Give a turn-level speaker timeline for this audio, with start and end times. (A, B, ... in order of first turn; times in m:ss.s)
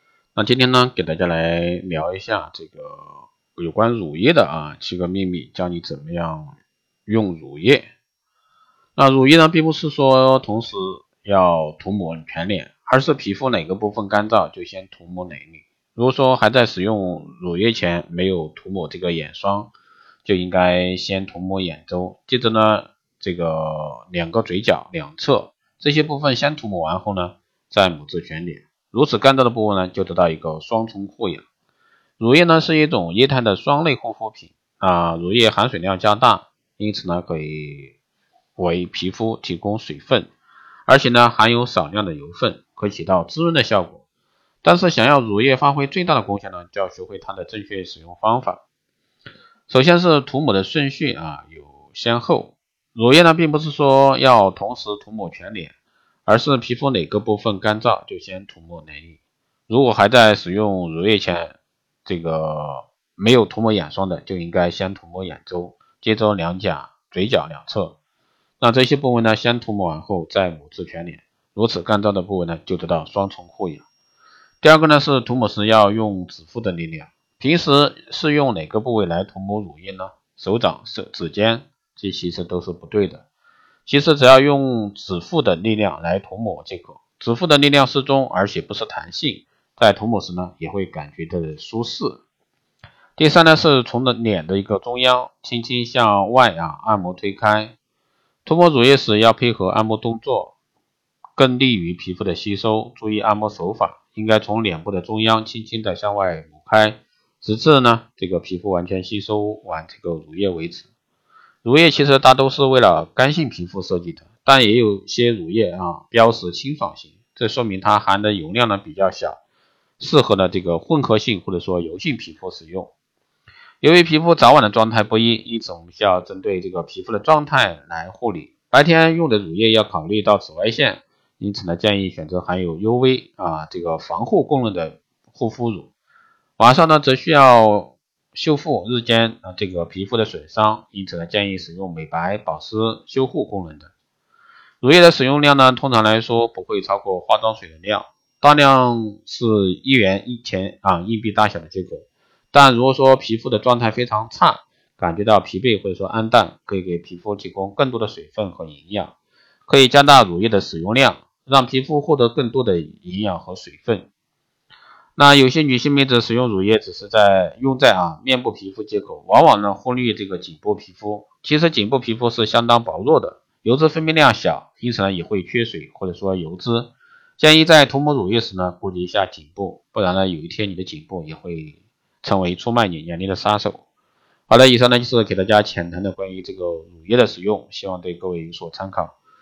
0:00.4-0:06.5 A
0:07.1-0:07.9 A
0:09.0-0:19.7 A
0:20.2-0:31.4 A
0:32.2-0:38.0 A
0:38.6-0:40.3 A
0:40.9-0:44.0 A
0:44.6-0:48.6 A
0:49.7-0:55.7 A
0:56.3-1:08.0 A
1:08.6-1:13.8 A
1:14.6-1:23.2 A
1:23.9-1:32.2 A
1:33.2-1:37.8 A
1:38.4-1:40.5 A
1:41.4-1:50.9 A
1:51.6-1:59.4 A
2:00.0-2:02.9 A
2:03.8-2:15.9 A
2:16.6-2:23.9 A
2:24.8-2:39.1 A
2:39.7-2:44.1 A
2:45.2-3:03.8 A
3:04.5-3:09.2 A